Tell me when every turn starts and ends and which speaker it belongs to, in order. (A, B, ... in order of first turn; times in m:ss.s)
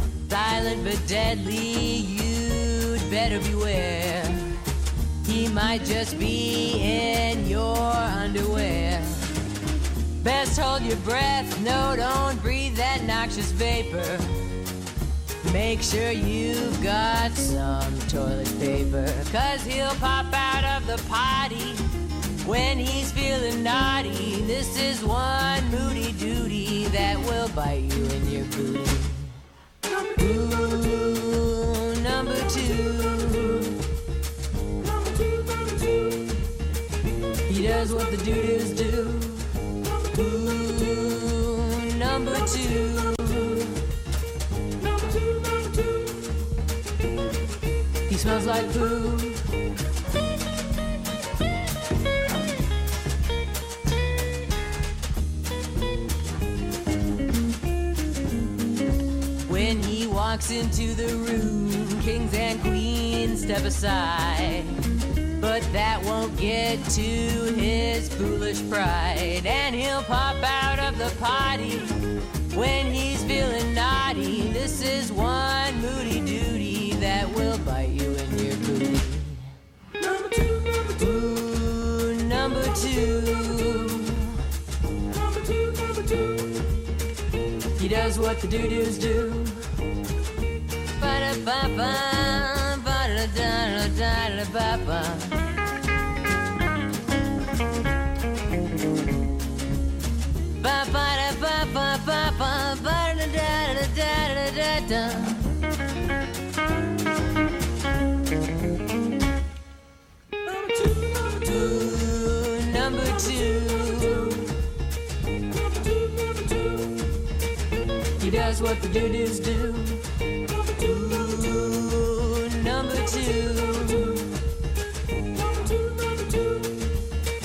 0:00.3-0:04.6 A
0:05.2-0:09.3 A
0:10.2-0:14.3 A
0:15.4-0:21.9 A
0:22.4-0:29.4 A
0:30.2-0:33.8 A
0:35.6-0:35.9 A
0:37.5-0:39.5 A
0:40.1-0:43.8 A
0:45.6-0:46.0 A
0:48.1-0:49.4 A
0:59.4-1:04.7 A
1:05.4-1:24.4 A
1:25.3-1:26.5 A
1:27.8-1:29.6 A
1:31.0-1:35.4 A
1:40.6-1:45.5 A
1:50.5-1:54.6 A
1:56.2-1:56.7 A
1:58.2-2:04.3 A
2:05.8-2:06.5 A